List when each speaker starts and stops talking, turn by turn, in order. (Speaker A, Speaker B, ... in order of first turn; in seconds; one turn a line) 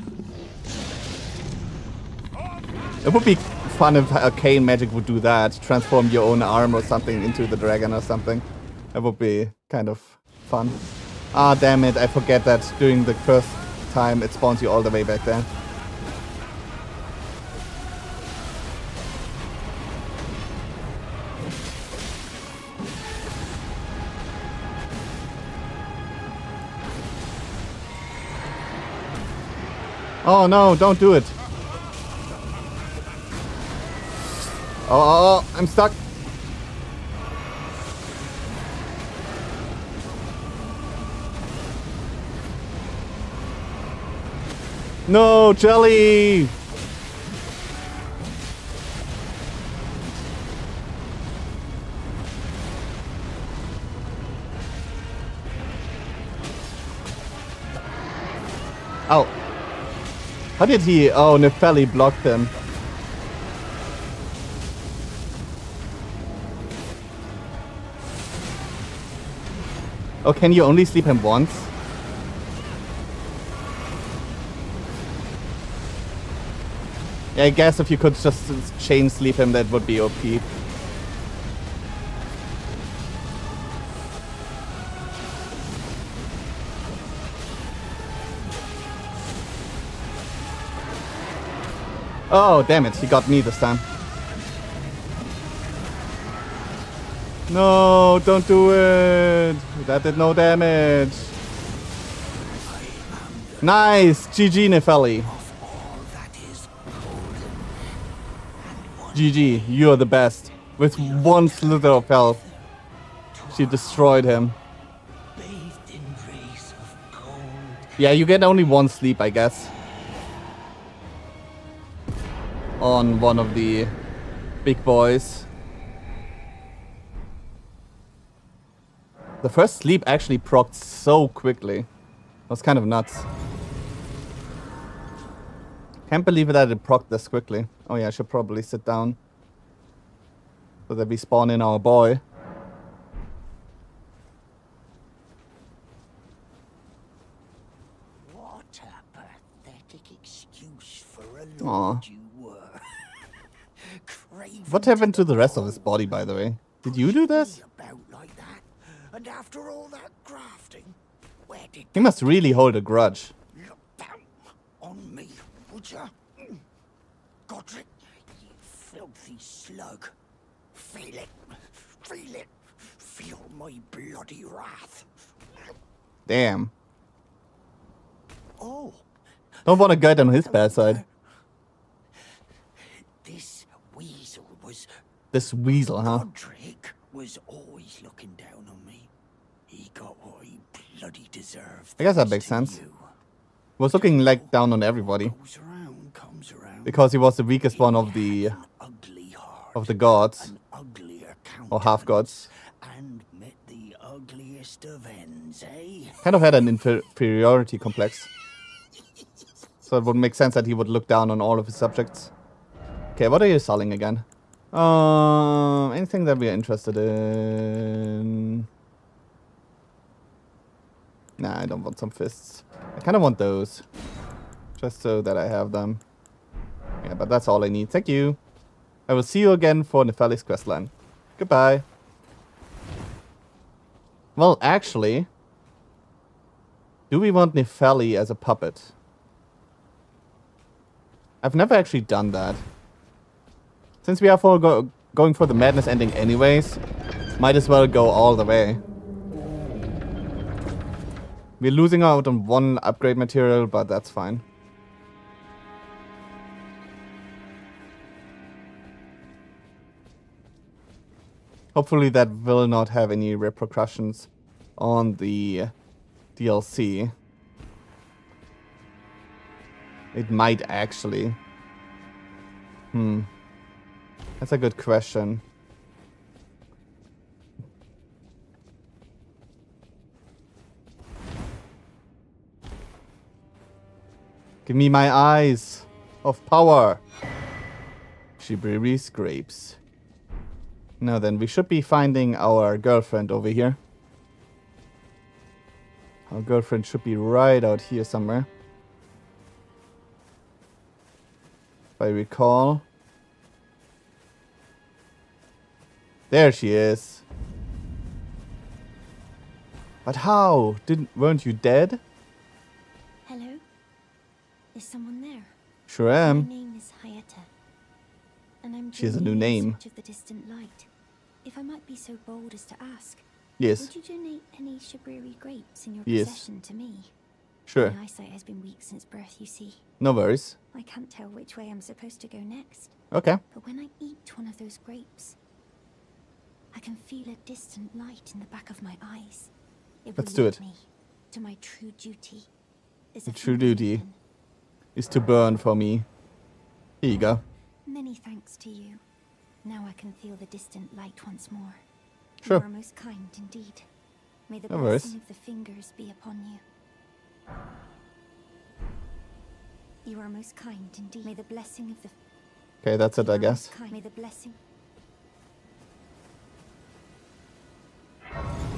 Speaker A: 3.0-10.8
Speaker A: 11.3-15.5
Speaker A: 30.2-31.3
Speaker A: 34.9-36.0
Speaker A: 45.1-46.5
Speaker A: 60.6-62.5
Speaker A: 70.2-71.7
Speaker A: 77.3-80.5
Speaker A: 92.3-93.8
Speaker A: 97.5-101.3
Speaker B: 102.6-104.2
Speaker A: 103.6-105.3
Speaker B: 105.2-108.0
Speaker B: 108.6-109.8
Speaker A: 109.1-112.4
Speaker B: 110.7-112.7
Speaker B: 113.3-114.2
Speaker A: 113.5-114.5
Speaker B: 115.3-118.0
Speaker A: 118.0-119.7
Speaker A: 122.8-123.9
Speaker A: 124.6-125.5
Speaker A: 129.4-131.9
Speaker A: 132.5-133.3
Speaker A: 136.1-139.2
Speaker A: 140.9-142.2
Speaker B: 148.2-156.2
Speaker A: 151.6-152.0
Speaker A: 154.7-157.6
Speaker B: 156.8-162.3
Speaker A: 161.9-163.3
Speaker B: 163.5-166.6
Speaker B: 167.5-170.1
Speaker B: 170.7-175.7
Speaker A: 176.2-176.7
Speaker B: 178.6-179.1
Speaker B: 179.6-181.1
Speaker A: 179.6-181.0
Speaker B: 182.8-189.1
Speaker A: 185.3-186.2
Speaker B: 189.7-193.1
Speaker A: 192.0-192.8
Speaker A: 193.8-195.3
Speaker B: 193.8-206.3
Speaker A: 196.8-198.6
Speaker A: 199.7-200.5
Speaker A: 201.7-202.5
Speaker A: 206.2-208.3
Speaker A: 209.9-212.3
Speaker A: 213.1-218.7
Speaker A: 221.4-223.8
Speaker A: 224.8-226.0
Speaker A: 227.0-228.4
Speaker A: 229.1-231.8
Speaker A: 234.3-235.3
Speaker A: 237.1-238.9
Speaker A: 241.4-242.6
Speaker A: 244.0-246.8
Speaker A: 247.4-248.8
Speaker A: 251.6-254.4
Speaker A: 261.7-265.7
Speaker A: 266.4-267.1
Speaker A: 270.1-271.4
Speaker A: 272.9-273.3
Speaker A: 274.4-275.4
Speaker A: 284.6-287.0
Speaker A: 288.4-289.8
Speaker A: 291.0-293.8
Speaker A: 296.3-298.5
Speaker A: 302.0-302.8
Speaker A: 306.3-307.2
Speaker A: 310.1-312.0
Speaker C: 313.2-313.6
Speaker C: 314.7-315.6
Speaker A: 315.9-316.5
Speaker C: 316.2-317.5
Speaker C: 318.6-320.9
Speaker A: 318.9-319.8
Speaker C: 321.4-323.2
Speaker A: 323.6-323.9
Speaker C: 323.8-327.1
Speaker A: 326.0-326.4
Speaker A: 327.7-327.9
Speaker C: 327.7-329.9
Speaker A: 330.0-330.6
Speaker C: 330.7-335.4
Speaker A: 333.1-333.4
Speaker C: 336.7-339.5
Speaker C: 340.0-342.5
Speaker A: 340.2-340.6
Speaker C: 343.1-344.2
Speaker A: 343.3-344.0
Speaker A: 344.9-346.1
Speaker A: 347.0-347.4
Speaker C: 347.8-349.0
Speaker C: 349.6-351.8
Speaker C: 352.4-353.9
Speaker C: 354.5-356.6
Speaker A: 354.7-355.1
Speaker C: 360.0-362.1
Speaker A: 362.8-363.7
Speaker C: 363.1-364.6